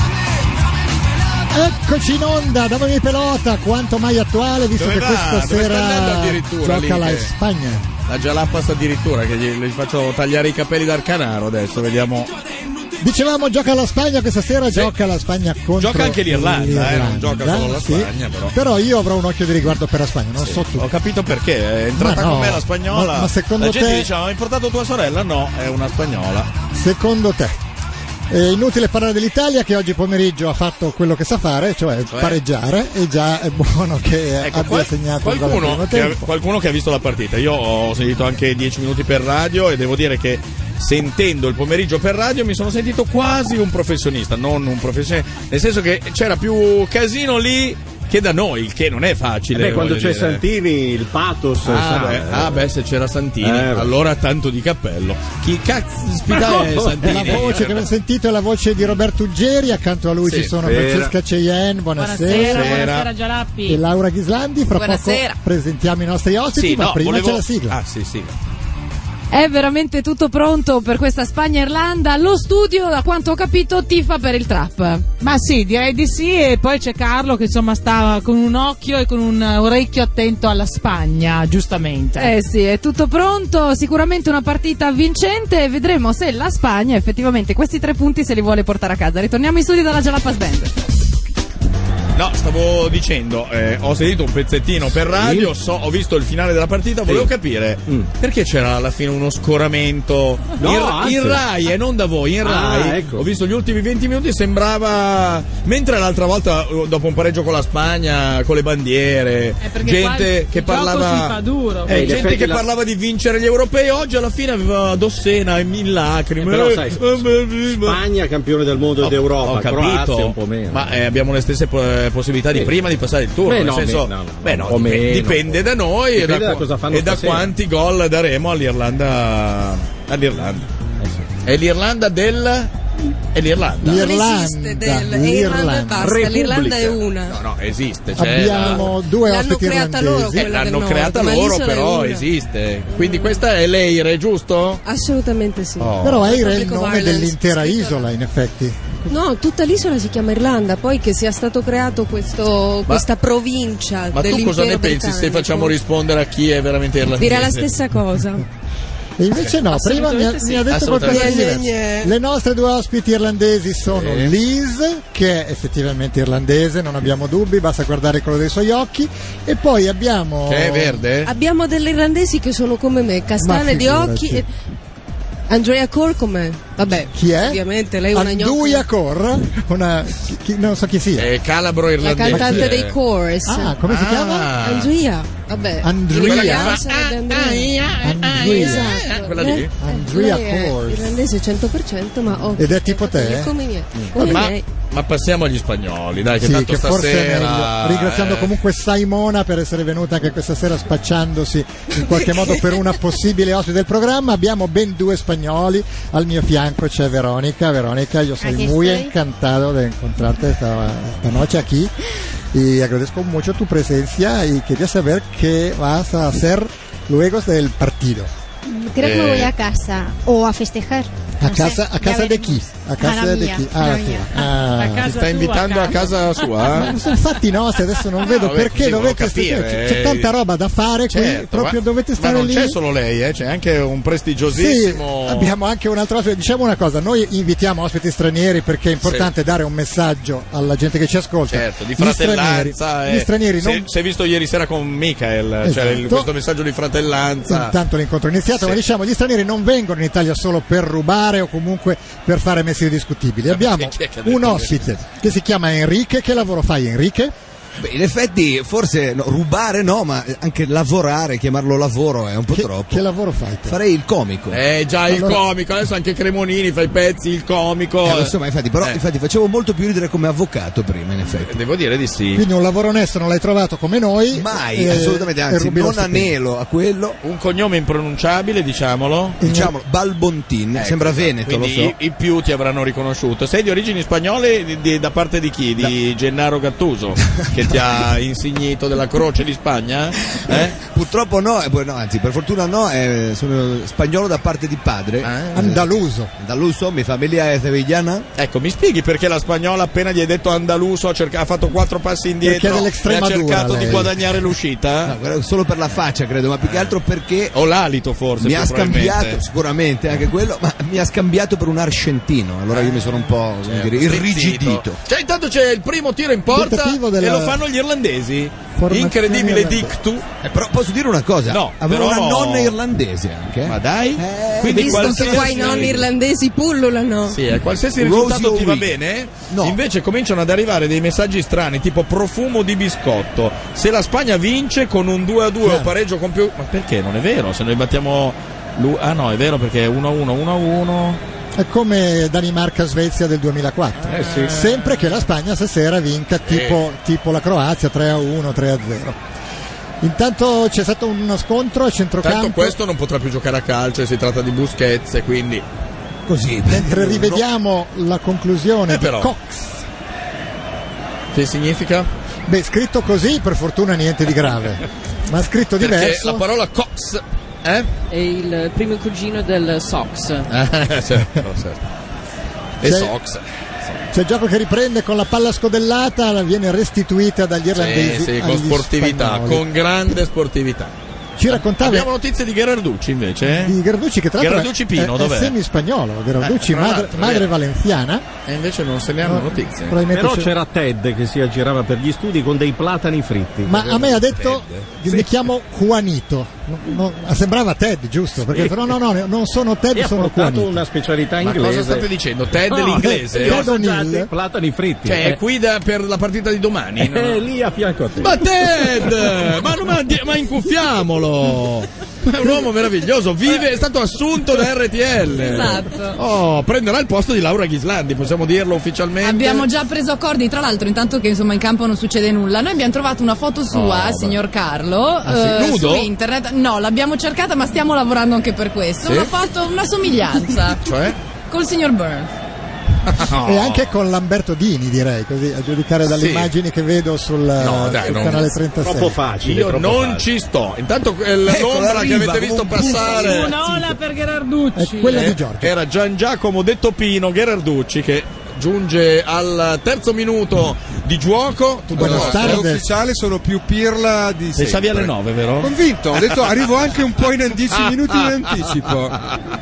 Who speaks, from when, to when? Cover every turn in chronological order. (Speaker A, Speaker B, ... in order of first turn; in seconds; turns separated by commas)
Speaker A: 1.5-7.9, Speaker B: 4.8-7.3, Speaker B: 8.1-12.3, Speaker A: 13.0-20.9, Speaker B: 15.8-18.5, Speaker B: 20.4-26.5, Speaker A: 21.9-24.1, Speaker A: 26.7-27.6, Speaker A: 28.3-36.2, Speaker B: 32.1-32.4, Speaker B: 34.4-50.4, Speaker C: 49.5-52.6, Speaker B: 51.6-57.9, Speaker C: 53.4-53.9, Speaker C: 56.5-57.1, Speaker A: 57.0-62.8, Speaker B: 60.2-60.5, Speaker C: 60.6-61.1, Speaker D: 62.0-63.8, Speaker B: 62.3-63.1, Speaker A: 63.6-67.8, Speaker E: 64.7-65.3, Speaker B: 66.5-68.3, Speaker E: 69.3-75.1, Speaker D: 75.2-82.3, Speaker E: 82.2-90.7, Speaker B: 92.1-118.0, Speaker C: 95.0-95.5, Speaker C: 97.0-97.3, Speaker C: 100.6-101.4, Speaker C: 102.4-103.2, Speaker D: 109.6-112.4, Speaker C: 111.9-112.6, Speaker C: 116.4-117.2, Speaker C: 117.7-120.9, Speaker B: 119.0-130.7, Speaker C: 123.5-127.5, Speaker C: 131.0-131.3, Speaker B: 131.4-132.7, Speaker B: 133.3-134.1, Speaker A: 133.8-136.2, Speaker F: 133.9-137.4, Speaker C: 136.0-137.0, Speaker B: 137.3-138.8, Speaker A: 138.2-140.5, Speaker F: 138.4-142.3, Speaker B: 140.3-144.8, Speaker F: 142.9-143.4, Speaker F: 144.8-148.0, Speaker B: 145.8-146.4, Speaker A: 146.0-148.8, Speaker F: 149.1-155.7, Speaker B: 154.1-157.7, Speaker F: 157.2-158.4, Speaker A: 159.2-171.0, Speaker F: 159.8-160.5, Speaker D: 160.1-160.6, Speaker B: 160.7-161.4, Speaker F: 161.0-162.1, Speaker G: 163.9-164.3, Speaker B: 170.4-171.3, Speaker F: 171.2-174.5, Speaker A: 173.4-174.4, Speaker F: 175.5-178.8, Speaker A: 177.1-177.6, Speaker A: 178.1-181.3, Speaker B: 181.2-182.9, Speaker F: 182.0-183.8, Speaker A: 182.2-182.7, Speaker A: 183.4-184.5, Speaker B: 183.8-184.9, Speaker F: 184.6-194.7, Speaker A: 185.8-186.8, Speaker B: 186.2-189.7, Speaker A: 188.0-189.0, Speaker A: 189.8-191.1, Speaker A: 192.5-193.5, Speaker B: 194.1-198.5, Speaker A: 196.4-211.9, Speaker H: 208.4-209.1, Speaker A: 212.5-218.3, Speaker H: 218.7-224.3, Speaker B: 219.0-219.5, Speaker A: 221.4-225.2, Speaker D: 224.7-226.8, Speaker B: 225.0-227.0, Speaker A: 226.7-232.8, Speaker B: 228.2-230.3, Speaker B: 231.1-235.5, Speaker A: 234.5-243.9, Speaker B: 239.0-239.3, Speaker B: 241.5-247.8, Speaker A: 245.6-246.3, Speaker A: 247.4-257.3, Speaker B: 253.5-254.9, Speaker I: 257.8-263.0, Speaker A: 262.5-263.8, Speaker I: 263.6-264.6, Speaker B: 264.5-269.0, Speaker A: 265.1-265.4, Speaker I: 268.0-271.5, Speaker B: 271.2-272.4, Speaker A: 272.3-276.3, Speaker I: 274.3-277.2, Speaker B: 277.2-279.4, Speaker A: 279.4-279.7, Speaker I: 279.4-281.9, Speaker B: 280.7-290.8, Speaker I: 290.5-298.3, Speaker B: 295.2-295.8, Speaker A: 295.5-296.3, Speaker B: 298.4-305.1, Speaker A: 302.4-304.2, Speaker I: 305.0-307.6, Speaker B: 306.6-306.9, Speaker B: 307.5-309.4, Speaker I: 308.4-315.0, Speaker B: 312.7-320.2, Speaker A: 316.5-317.6, Speaker A: 318.8-319.9, Speaker I: 320.4-326.0, Speaker B: 321.5-322.8, Speaker B: 323.6-326.0, Speaker F: 324.6-327.4, Speaker B: 327.3-341.2, Speaker I: 328.0-328.9, Speaker I: 329.5-329.8, Speaker A: 335.6-335.9, Speaker A: 341.6-349.2, Speaker B: 344.0-345.3, Speaker C: 344.1-344.5, Speaker B: 346.4-346.8, Speaker A: 350.0-352.8, Speaker B: 352.2-355.6, Speaker I: 356.3-357.4, Speaker A: 356.7-359.8, Speaker B: 358.9-359.3, Speaker B: 361.3-362.1, Speaker A: 362.5-366.4, Speaker B: 365.8-367.9, Speaker J: 368.1-370.5, Speaker B: 370.5-371.8, Speaker B: 372.8-373.4, Speaker A: 372.8-373.1, Speaker A: 374.1-379.6, Speaker B: 377.7-380.9, Speaker A: 381.4-382.1, Speaker B: 381.5-383.8, Speaker A: 383.4-388.2, Speaker B: 384.4-385.5, Speaker B: 386.4-387.5, Speaker B: 388.4-390.0, Speaker A: 389.2-390.5, Speaker C: 390.1-394.2, Speaker A: 393.6-400.8, Speaker B: 394.3-395.3, Speaker C: 399.9-402.1, Speaker B: 401.4-403.7, Speaker A: 402.9-404.3, Speaker C: 403.0-405.4, Speaker B: 405.0-407.4, Speaker C: 407.0-408.4, Speaker B: 408.2-419.7, Speaker E: 415.4-416.2, Speaker E: 419.2-430.9, Speaker B: 423.7-424.4, Speaker B: 425.2-426.1, Speaker B: 429.0-429.3, Speaker B: 430.7-431.2, Speaker E: 431.5-432.3, Speaker B: 433.1-433.9, Speaker A: 433.3-439.2, Speaker B: 436.1-436.5, Speaker B: 437.6-438.5, Speaker C: 438.8-440.3, Speaker B: 439.4-443.6, Speaker I: 441.5-444.0, Speaker D: 442.8-445.3, Speaker A: 444.7-445.7, Speaker B: 445.1-452.6, Speaker A: 451.9-452.9, Speaker G: 451.9-459.2, Speaker B: 454.5-456.4, Speaker B: 457.7-458.9